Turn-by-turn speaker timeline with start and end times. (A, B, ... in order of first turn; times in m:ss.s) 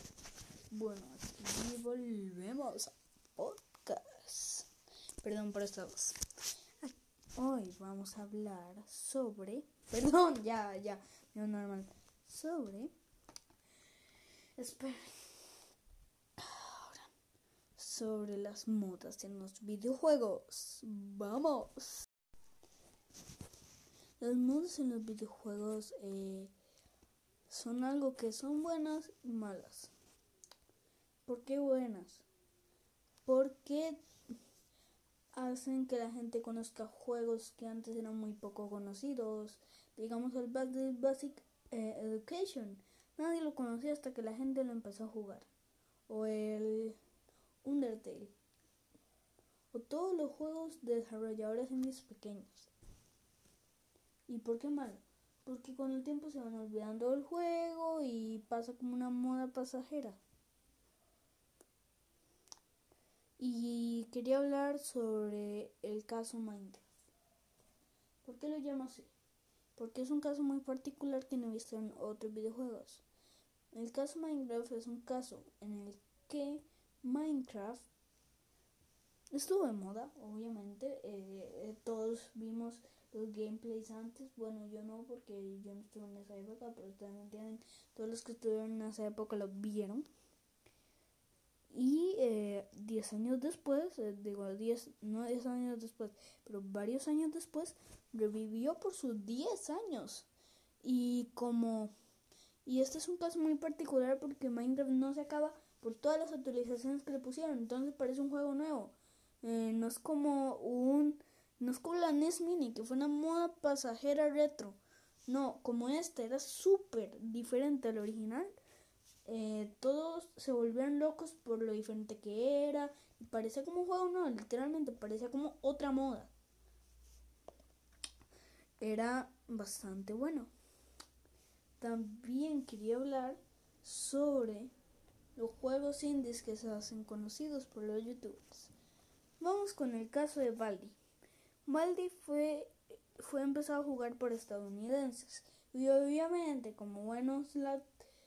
0:00.7-0:04.7 A
0:05.2-0:06.2 A
0:06.8-0:12.9 A
0:14.6-0:15.5 A
0:16.4-0:17.1 A
0:17.8-0:22.1 A
0:24.2-0:26.5 A
0:27.5-0:29.9 A
0:31.3-0:32.2 A
0:33.2-0:34.0 A
0:35.3-0:45.5 A
0:46.1-0:47.0 A
0:47.6-0:48.3 A
0:49.7-0:52.7 A
0:54.3-1:00.2 A
1:03.4-1:06.8 A
1:08.2-1:09.1 A
1:09.8-1:13.0 A
1:13.7-1:17.9 A
1:19.3-1:30.1 A
1:31.7-1:40.3 A
1:40.8-1:41.9 A
1:42.6-1:58.5 A
1:59.2-2:06.3 A
2:08.8-2:10.5 A
2:11.8-2:14.7 A
2:15.4-2:18.7 A
2:19.4-2:21.0 A
2:21.6-2:27.9 A